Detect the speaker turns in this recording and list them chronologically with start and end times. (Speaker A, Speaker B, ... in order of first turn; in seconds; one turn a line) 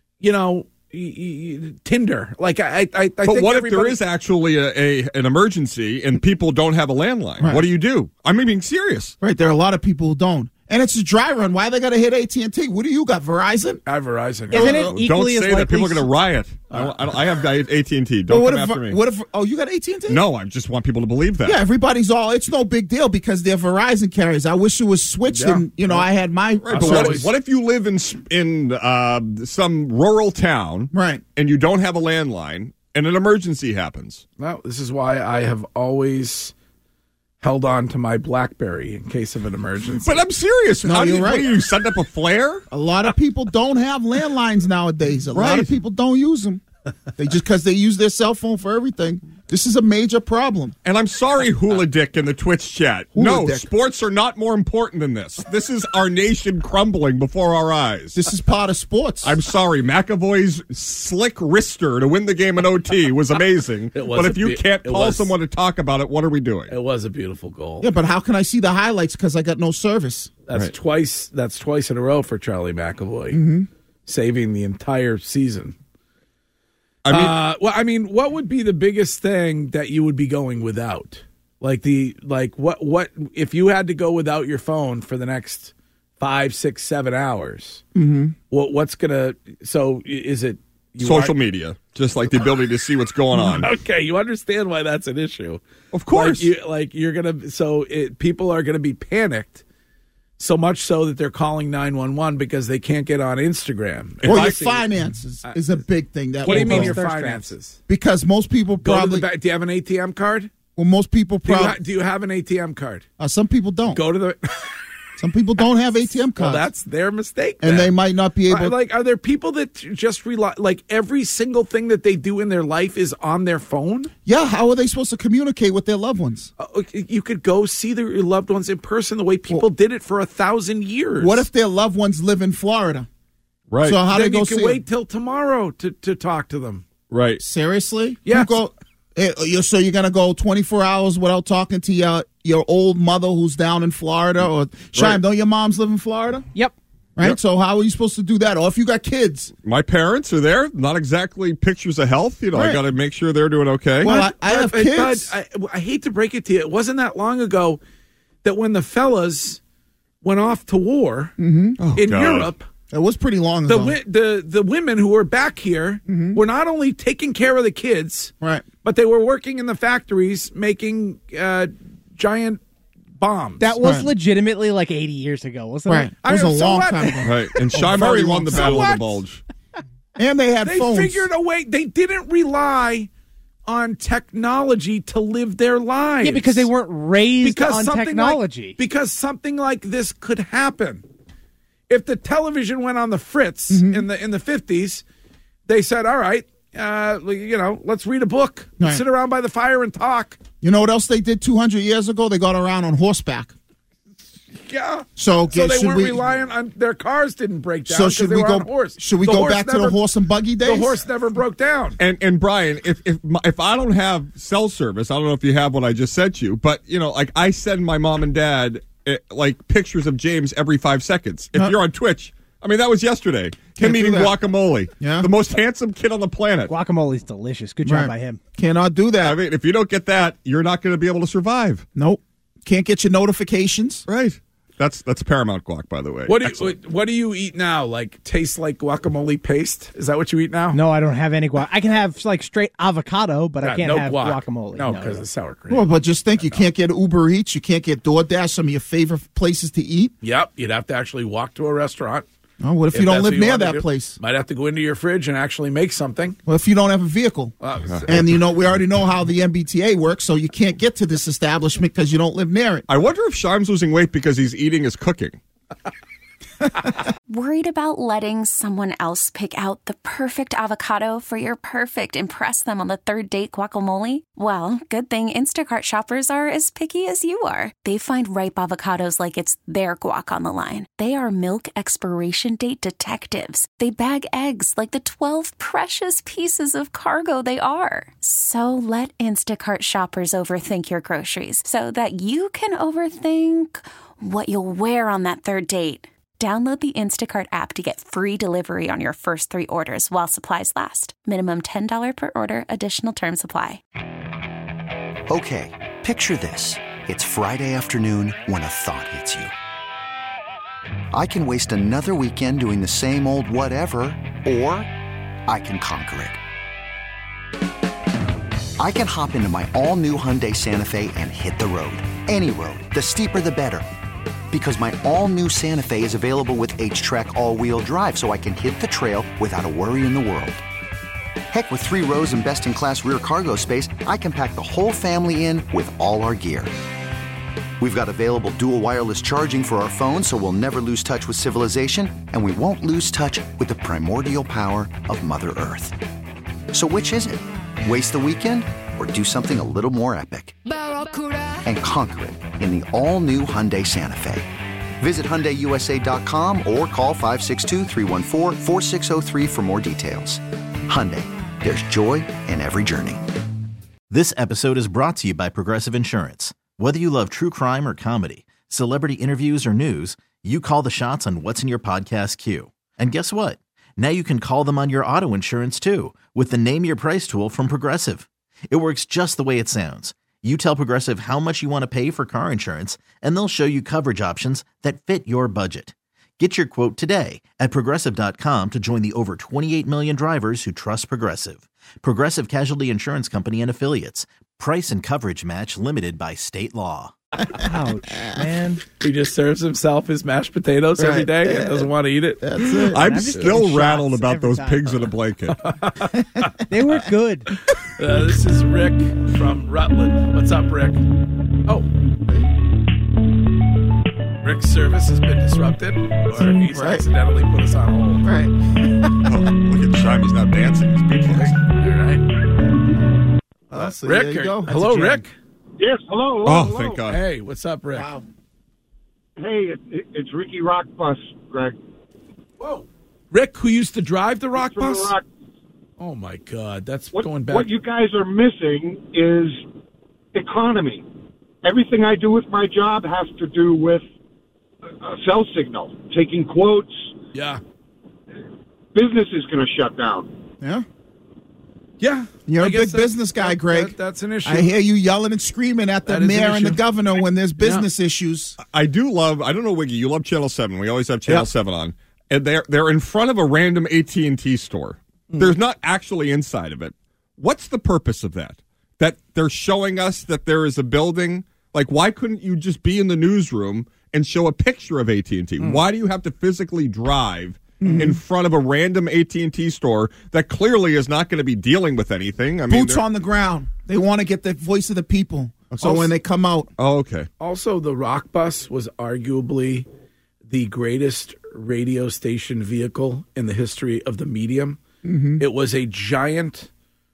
Speaker A: 0.2-4.0
Speaker B: 3.2-9.2
Speaker C: 9.2-13.8
Speaker A: 13.9-14.8
Speaker D: 14.5-16.1
Speaker C: 14.5-15.0
Speaker B: 14.6-19.0
Speaker A: 16.7-17.0
Speaker C: 18.3-20.2
Speaker B: 20.1-21.6
Speaker C: 21.4-27.3
Speaker A: 25.3-26.1
Speaker B: 26.6-34.2
Speaker A: 26.7-27.3
Speaker C: 30.9-31.2
Speaker A: 34.4-36.5
Speaker A: 37.4-40.2
Speaker B: 40.0-42.6
Speaker C: 40.8-41.5
Speaker C: 42.7-46.6
Speaker B: 45.3-45.7
Speaker C: 47.2-50.8
Speaker B: 50.9-58.2
Speaker C: 53.1-53.7
Speaker C: 58.1-59.4
Speaker B: 59.2-66.8
Speaker A: 63.9-65.3
Speaker A: 66.7-67.9
Speaker C: 67.8-70.3
Speaker A: 70.5-73.4
Speaker C: 73.3-73.7
Speaker A: 74.1-75.8
Speaker B: 77.0-77.4
Speaker A: 77.1-87.8
Speaker C: 88.0-88.3
Speaker A: 88.5-91.3
Speaker B: 91.0-93.7
Speaker A: 93.3-99.6
Speaker B: 95.9-96.5
Speaker A: 100.4-104.9
Speaker B: 104.2-104.5
Speaker C: 104.2-107.0
Speaker D: 106.4-107.5
Speaker A: 106.4-107.8
Speaker C: 107.9-109.3
Speaker A: 108.8-110.5
Speaker C: 110.8-111.8
Speaker A: 111.5-113.1
Speaker C: 113.2-114.0
Speaker A: 113.9-114.8
Speaker C: 115.2-116.7
Speaker A: 116.4-118.0
Speaker C: 117.6-118.8
Speaker A: 118.5-124.1
Speaker C: 124.3-126.5
Speaker A: 126.6-131.5
Speaker C: 131.2-133.1
Speaker B: 133.7-134.0
Speaker C: 133.8-134.8
Speaker A: 134.1-136.9
Speaker B: 137.1-137.4
Speaker C: 137.4-146.4
Speaker A: 138.3-138.5
Speaker B: 144.9-145.2
Speaker C: 147.2-149.5
Speaker B: 149.6-154.1
Speaker C: 152.5-152.8
Speaker C: 154.0-155.3
Speaker A: 154.1-157.8
Speaker A: 158.4-159.6
Speaker A: 160.2-161.3
Speaker C: 161.4-161.8
Speaker B: 161.8-162.5
Speaker A: 162.0-162.7
Speaker C: 162.9-164.0
Speaker A: 163.7-172.6
Speaker C: 166.1-166.4
Speaker C: 168.4-168.7
Speaker A: 173.2-173.7
Speaker D: 173.6-176.1
Speaker C: 173.8-174.1
Speaker C: 175.9-178.9
Speaker A: 176.2-179.2
Speaker B: 177.2-179.4
Speaker C: 180.2-181.3
Speaker A: 180.6-183.1
Speaker A: 183.7-186.7
Speaker D: 186.2-188.8
Speaker A: 187.4-191.1
Speaker A: 191.9-195.0
Speaker C: 193.7-194.1
Speaker A: 195.7-200.4
Speaker C: 200.6-203.5
Speaker A: 204.6-210.0
Speaker C: 205.2-206.2
Speaker C: 207.9-211.0
Speaker A: 210.6-212.0
Speaker B: 212.0-226.7
Speaker C: 223.8-224.3
Speaker C: 225.0-225.3
Speaker D: 226.7-228.4
Speaker C: 227.8-229.4
Speaker B: 229.2-231.8
Speaker C: 232.0-234.1
Speaker B: 234.1-236.8
Speaker A: 236.3-240.8
Speaker D: 240.7-245.3
Speaker A: 243.6-245.9
Speaker C: 245.7-250.1
Speaker A: 250.2-252.3
Speaker C: 252.6-254.2
Speaker A: 252.9-256.4
Speaker C: 256.5-257.6
Speaker A: 257.6-258.2
Speaker C: 258.1-262.9
Speaker B: 262.9-265.4
Speaker E: 267.3-303.8
Speaker F: 305.3-309.5
Speaker F: 311.1-314.9
Speaker F: 315.5-316.4
Speaker F: 318.8-323.9
Speaker F: 324.5-330.6
Speaker F: 331.5-336.7
Speaker F: 337.8-346.0
Speaker F: 346.7-350.6
Speaker F: 351.6-354.5
Speaker F: 355.0-363.2
Speaker G: 364.1-397.1
Speaker D: 397.6-398.8
Speaker A: 399.0-402.6
Speaker C: 401.0-403.3
Speaker B: 402.8-405.7
Speaker D: 402.9-405.1
Speaker A: 403.2-403.6
Speaker A: 405.6-406.5
Speaker D: 406.7-407.5
Speaker A: 407.8-411.0
Speaker A: 414.4-418.2
Speaker C: 416.3-417.1
Speaker C: 418.2-419.3
Speaker B: 419.2-421.5
Speaker A: 421.3-422.2
Speaker C: 423.7-425.2
Speaker A: 423.7-425.3
Speaker H: 425.8-427.1
Speaker B: 426.4-427.2
Speaker A: 427.1-428.1
Speaker C: 427.9-428.3
Speaker H: 429.4-431.8
Speaker A: 432.6-435.2
Speaker H: 434.6-435.3
Speaker A: 436.0-437.8
Speaker H: 437.1-439.6
Speaker H: 440.3-441.1
Speaker H: 441.6-444.1
Speaker H: 445.0-447.1
Speaker A: 447.3-447.6
Speaker H: 448.9-450.3
Speaker A: 452.0-454.7
Speaker C: 452.5-458.6
Speaker A: 456.1-456.8
Speaker A: 457.6-457.9
Speaker B: 458.6-483.0
Speaker C: 477.8-478.2
Speaker C: 482.7-486.7
Speaker A: 485.8-486.1
Speaker B: 486.8-487.3
Speaker A: 487.4-489.9
Speaker A: 490.5-494.8
Speaker C: 495.0-495.4
Speaker A: 495.4-496.7